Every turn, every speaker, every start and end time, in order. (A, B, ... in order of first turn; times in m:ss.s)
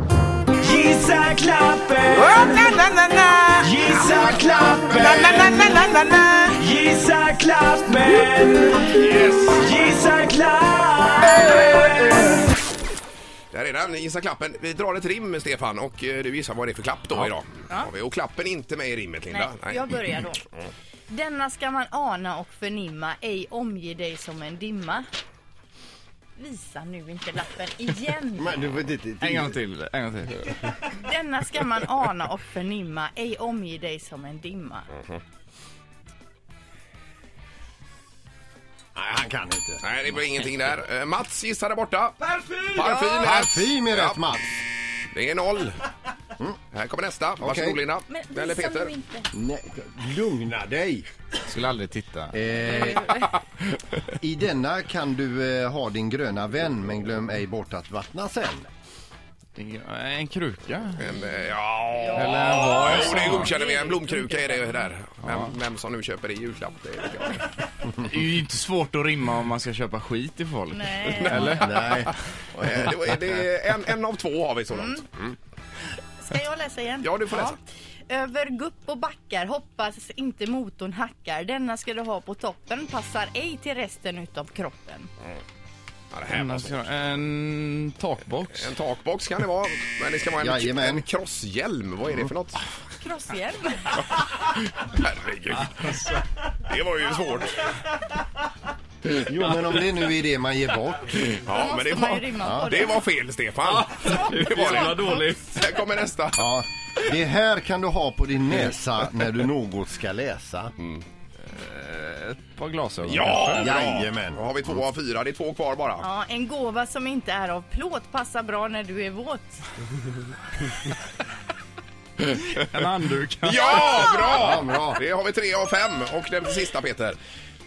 0:00.6-0:08.8 A
0:02.4-0:03.5 B
0:04.0-0:05.9 B
0:08.9-0:09.7 B
0:09.6-0:12.2 A
0:13.5-0:19.8 B
0:19.3-0:20.4 C
0:21.1-0:25.1 C
0:26.4-0:28.6 C
0:28.4-0:29.6 D
0:29.2-0:30.5 E
0:30.8-0:34.9 C
0:38.9-0:39.8 D
0:39.8-0:44.2 B
0:43.1-0:44.6 D
0:45.1-0:45.8 B
0:46.7-0:48.9 B
0:47.4-0:47.8 D
0:48.1-0:49.3 C
0:49.3-0:51.0 D
0:51.5-0:52.4 E
0:52.3-0:53.0 D
0:52.6-0:53.3 C
0:54.2-0:58.7 D
0:59.6-1:01.0 E
1:01.0-1:07.7 B
1:01.1-1:04.9 C
1:02.1-1:03.5 E
1:05.2-1:05.5 E
1:08.0-1:12.1 E
1:10.7-1:11.6 C
1:11.1-1:12.0 B
1:11.6-1:12.1 D
1:12.5-1:15.4 B
1:14.7-1:15.0 C
1:16.2-1:25.1 C
1:17.0-1:17.6 B
1:26.1-1:26.8 B
1:26.3-1:28.7 E
1:28.5-1:32.6 B
1:30.4-1:31.0 D
1:33.0-1:34.0 C
1:34.4-1:37.8 B
1:35.6-1:36.2 E
1:39.1-1:41.2 D
1:41.1-1:46.5 B
1:41.5-1:43.0 C
1:42.4-1:42.8 D
1:43.6-1:45.5 E
1:46.4-1:50.7 D
1:50.8-1:51.0 B
1:51.4-1:53.8 E
1:53.0-1:56.1 B
1:53.5-1:54.5 D
1:56.0-1:59.6 C
2:02.2-2:04.3 E
2:03.4-2:07.2 B
2:03.6-2:04.5 C
2:04.3-2:05.0 D